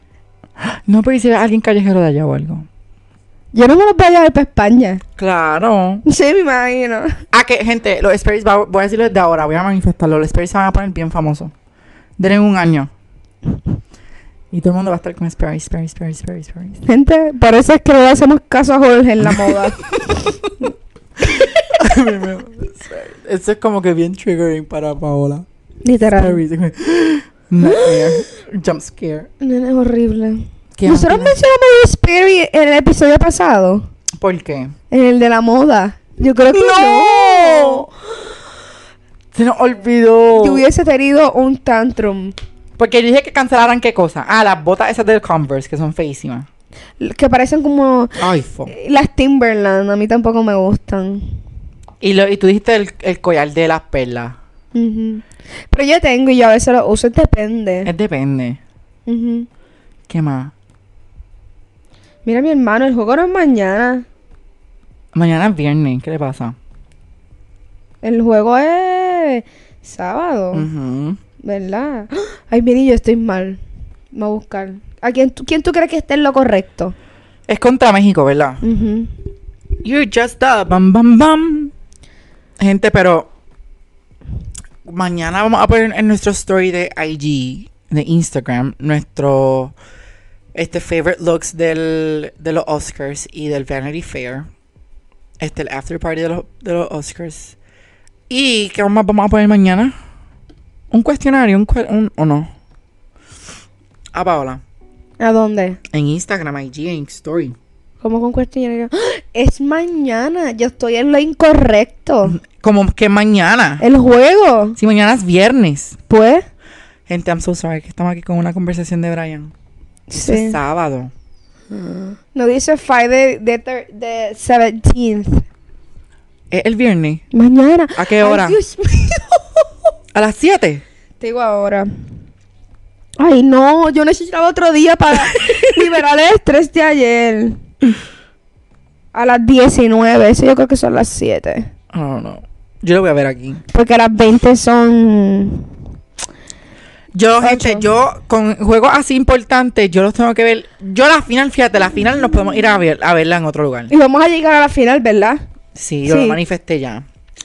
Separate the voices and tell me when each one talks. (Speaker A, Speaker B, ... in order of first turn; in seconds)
Speaker A: 0.6-2.6, 5.2-6.0, 7.3-11.5, 12.2-12.9, 14.5-16.8, 19.2-20.5, 21.2-25.4, 26.0-29.3, 30.8-31.4, 34.2-34.7, 36.5-37.9, 39.3-40.6, 42.8-46.5, 48.2-48.7, 52.0-54.4, 57.8-58.6, 60.1-60.5, 65.1-66.5, 70.5-71.2, 77.5-78.6, 79.8-81.7, 82.6-83.3, 84.8-89.7, 90.5-94.5, 95.4-97.5, 98.3-99.9, 100.9-102.5, 104.1-104.6, 105.9-107.5, 112.2-113.8, 114.8-116.0, 117.1-119.5, 120.2-121.1, 126.5-127.2, 127.9-128.6, 130.1-130.8, 135.3-135.8, 141.9-143.6, 147.1-153.9, 155.7-157.0
Speaker B: 3.5-5.0, 6.0-7.2, 16.9-20.7, 25.8-26.4, 27.6-28.2, 29.4-33.9, 34.9-37.9, 40.4-42.3, 47.0-51.4, 54.7-57.9, 59.1-59.5, 62.2-64.0, 68.0-70.7, 71.4-73.6, 74.1-76.9, 78.6-79.1, 105.2-105.8, 108.0-112.4, 113.8-114.8, 116.1-116.5, 120.1-120.6, 121.7-125.4, 127.3-129.6, 131.2-131.9, 133.2-137.6, 139.1-141.7, 143.7-145.7, 147.4-147.9, 153.9-155.4, 156.1-156.4